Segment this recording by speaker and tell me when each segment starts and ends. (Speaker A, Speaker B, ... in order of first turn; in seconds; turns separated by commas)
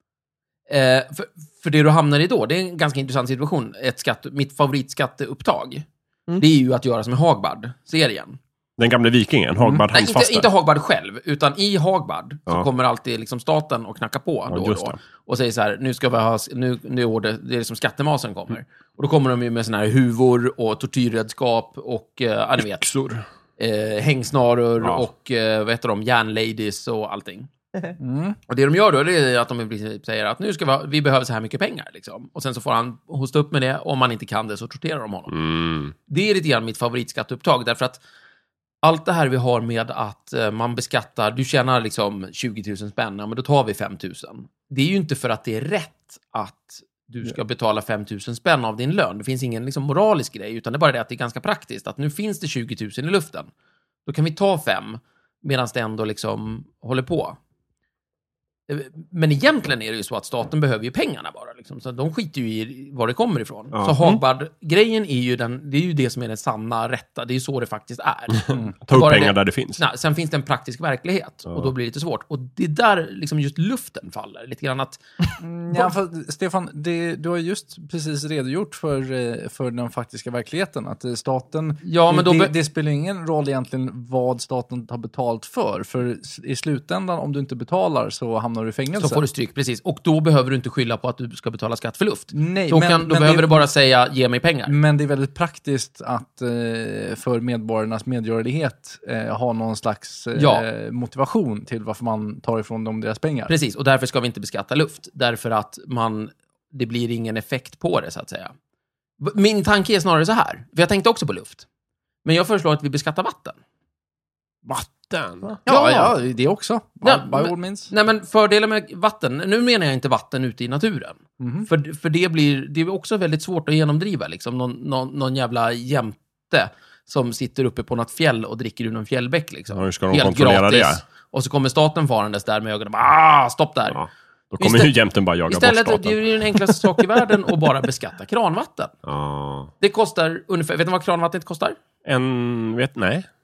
Speaker A: 0.7-5.9, Speaker A: 6.4-8.4, Speaker B: 8.8-10.5, Speaker A: 9.9-22.9, Speaker B: 14.5-15.0, Speaker B: 22.6-23.2, Speaker A: 23.6-27.5, Speaker B: 24.8-25.1, Speaker C: 28.0-28.4, Speaker A: 28.5-35.4, Speaker B: 35.3-35.9, Speaker A: 36.1-38.0, Speaker A: 38.8-53.5, Speaker A: 54.1-57.4, Speaker A: 58.7-75.0, Speaker B: 68.9-69.8, Speaker C: 75.4-89.2, Speaker A: 81.8-82.5, Speaker A: 89.0-94.8, Speaker C: 92.3-93.7, Speaker C: 94.7-103.5, Speaker A: 100.3-100.7, Speaker A: 103.5-108.5, Speaker A: 109.2-111.7, Speaker A: 112.2-113.6, Speaker B: 114.7-115.5, Speaker A: 115.7-116.2, Speaker C: 115.7-117.9, Speaker A: 117.0-134.0, Speaker C: 121.4-121.7, Speaker B: 129.7-131.0, Speaker B: 133.9-136.8, Speaker A: 134.6-134.9, Speaker A: 135.5-138.9, Speaker B: 139.1-139.7, Speaker A: 139.8-141.8, Speaker B: 142.1-143.3